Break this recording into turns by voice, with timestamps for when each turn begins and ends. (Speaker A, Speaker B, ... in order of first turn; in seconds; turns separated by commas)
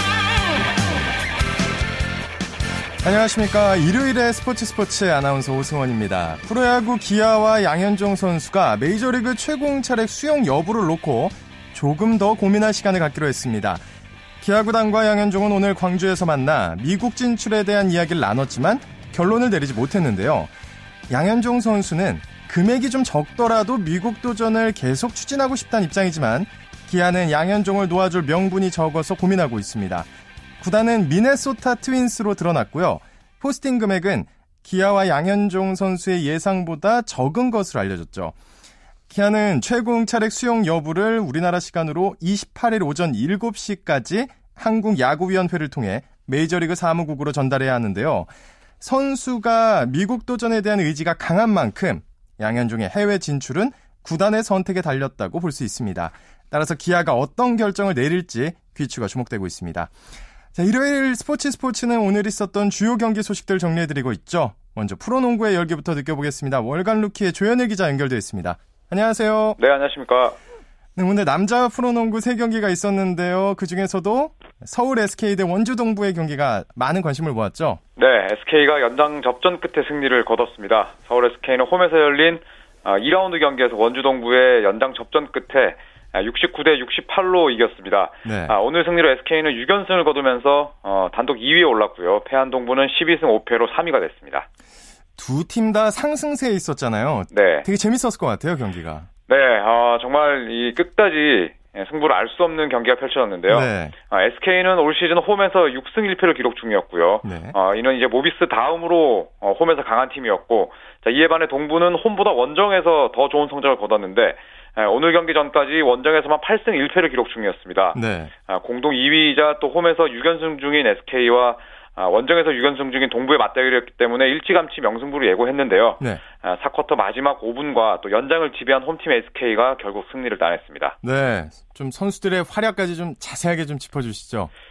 Speaker A: 3.0-13.8, Speaker A: 14.4-20.5, Speaker A: 21.1-30.1, Speaker A: 30.6-38.4, Speaker A: 39.1-59.9, Speaker A: 60.5-69.6, Speaker B: 69.6-70.4, Speaker A: 71.0-77.8, Speaker B: 78.0-94.5, Speaker A: 88.3-88.5, Speaker A: 95.2-99.1, Speaker B: 97.3-97.7, Speaker B: 99.3-131.0, Speaker A: 103.5-104.0, Speaker A: 107.2-107.5, Speaker A: 117.9-118.3, Speaker A: 131.0-134.5